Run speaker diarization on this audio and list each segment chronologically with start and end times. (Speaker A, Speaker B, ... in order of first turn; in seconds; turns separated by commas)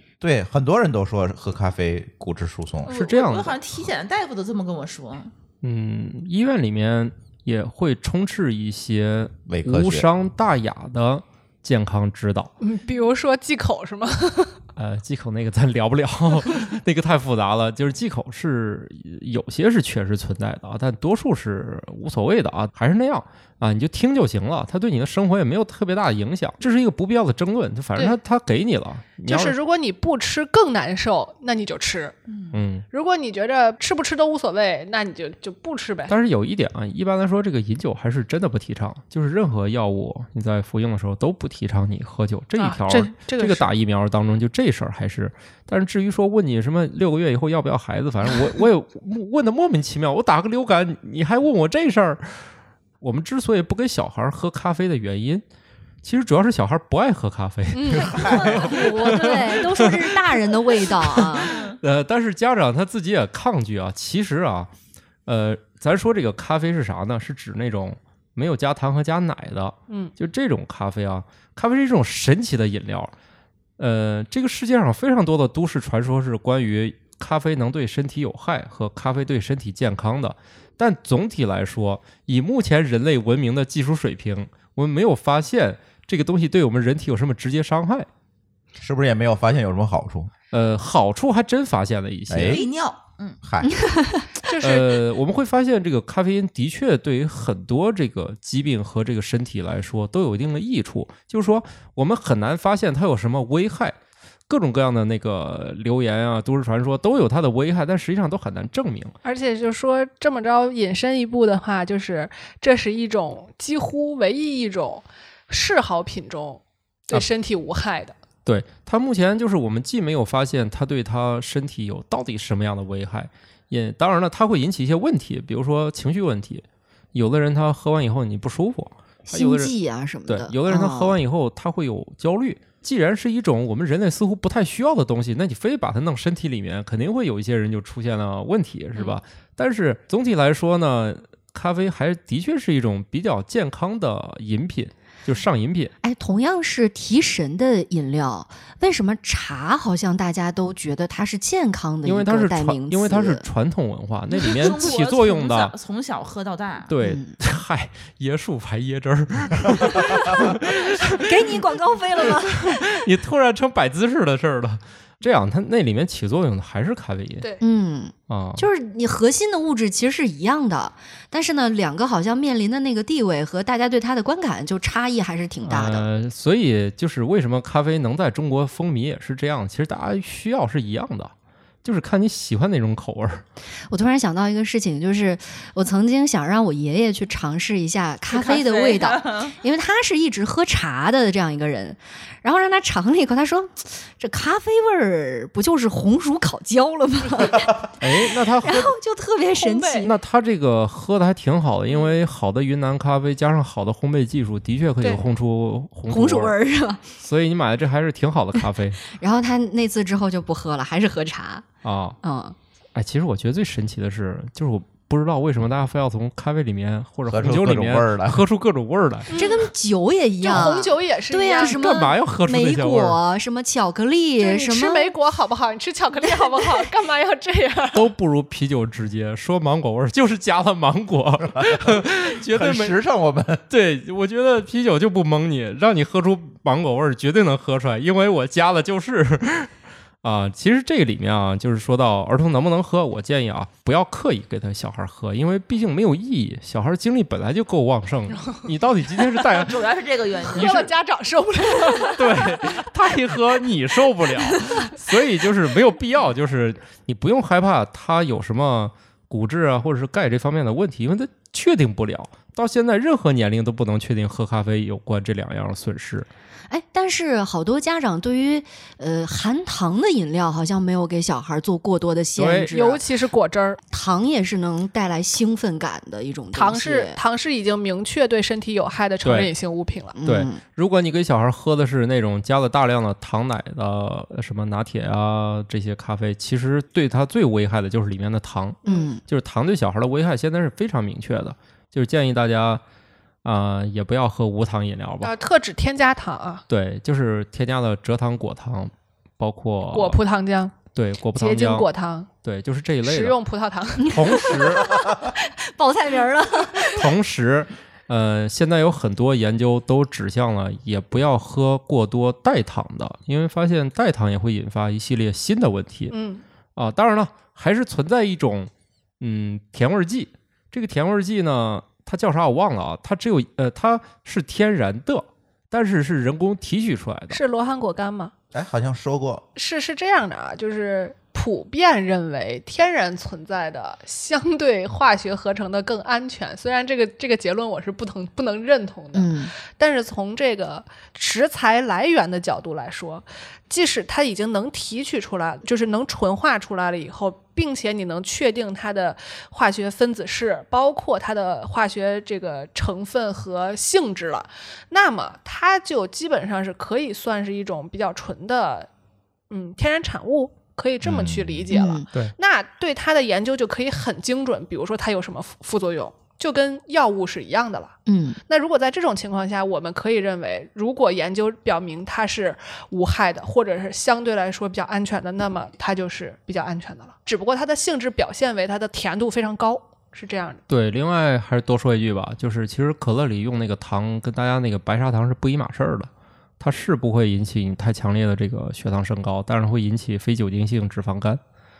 Speaker A: 0.2-2.9, Speaker B: 2.9-5.3, Speaker C: 2.9-3.6, Speaker C: 5.6-12.5, Speaker A: 9.5-10.1, Speaker D: 12.6-14.6, Speaker C: 14.8-29.6, Speaker D: 29.2-32.1, Speaker B: 32.3-32.6, Speaker C: 32.5-32.9, Speaker D: 32.9-36.2, Speaker C: 36.1-52.5, Speaker D: 42.6-43.7, Speaker C: 53.0-55.4, Speaker C: 56.0-64.7, Speaker D: 57.7-58.5, Speaker A: 57.9-58.8, Speaker E: 58.3-61.5, Speaker B: 61.5-61.8, Speaker C: 65.3-73.1, Speaker D: 69.9-70.1, Speaker C: 73.8-88.1, Speaker A: 88.8-90.3, Speaker C: 90.5-92.6, Speaker A: 92.3-92.7, Speaker B: 92.3-93.4, Speaker A: 93.4-93.8, Speaker E: 93.8-94.3, Speaker D: 94.4-95.0, Speaker C: 94.6-104.0, Speaker C: 104.5-109.1, Speaker D: 109.2-118.2, Speaker C: 118.5-129.7, Speaker E: 129.3-131.2, Speaker C: 130.3-145.9, Speaker E: 146.0-153.5, Speaker C: 152.0-155.8, Speaker B: 154.3-156.9, Speaker C: 156.9-161.6, Speaker E: 157.0-157.4, Speaker E: 159.8-162.9, Speaker C: 162.2-167.5, Speaker D: 167.4-167.7, Speaker E: 167.6-176.1, Speaker C: 168.3-168.7, Speaker C: 175.6-181.3, Speaker C: 181.8-183.4, Speaker E: 183.9-200.1, Speaker B: 188.3-189.6, Speaker C: 198.0-198.9, Speaker D: 199.6-200.1, Speaker C: 200.0-206.6, Speaker E: 206.1-207.0, Speaker C: 207.2-209.0, Speaker E: 209.0-211.7, Speaker C: 211.8-212.2, Speaker E: 212.2-212.6, Speaker C: 212.9-219.3, Speaker A: 217.3-218.4, Speaker D: 219.3-219.7, Speaker E: 219.3-225.1, Speaker D: 220.4-222.0, Speaker C: 221.6-223.2, Speaker D: 224.4-228.1, Speaker E: 226.3-226.9, Speaker C: 227.9-232.9, Speaker A: 231.5-233.6, Speaker C: 233.7-239.7, Speaker C: 240.2-249.8, Speaker D: 248.4-248.7, Speaker B: 249.4-250.8, Speaker D: 250.4-252.6, Speaker C: 250.5-250.9, Speaker C: 252.0-266.3, Speaker E: 266.7-273.0, Speaker C: 272.4-272.8, Speaker D: 272.7-273.8, Speaker E: 273.9-277.2, Speaker D: 276.5-280.2, Speaker C: 279.2-279.5, Speaker E: 280.1-280.6, Speaker C: 280.2-292.8, Speaker D: 288.9-289.1, Speaker E: 288.9-289.2, Speaker C: 293.4-295.3, Speaker D: 295.2-296.6, Speaker C: 296.7-300.2, Speaker D: 299.9-300.8, Speaker C: 300.9-301.9, Speaker D: 301.3-302.3, Speaker C: 302.4-303.4, Speaker D: 303.0-304.6, Speaker E: 304.0-307.1, Speaker C: 304.1-305.0, Speaker C: 306.9-316.2, Speaker D: 316.1-316.4, Speaker C: 316.8-327.4, Speaker D: 327.3-328.3, Speaker A: 328.5-329.5, Speaker D: 329.6-358.9, Speaker E: 339.1-339.5, Speaker D: 359.5-368.0, Speaker A: 361.0-361.7, Speaker E: 361.7-362.1, Speaker E: 368.1-368.4, Speaker D: 368.5-380.6, Speaker C: 380.7-391.4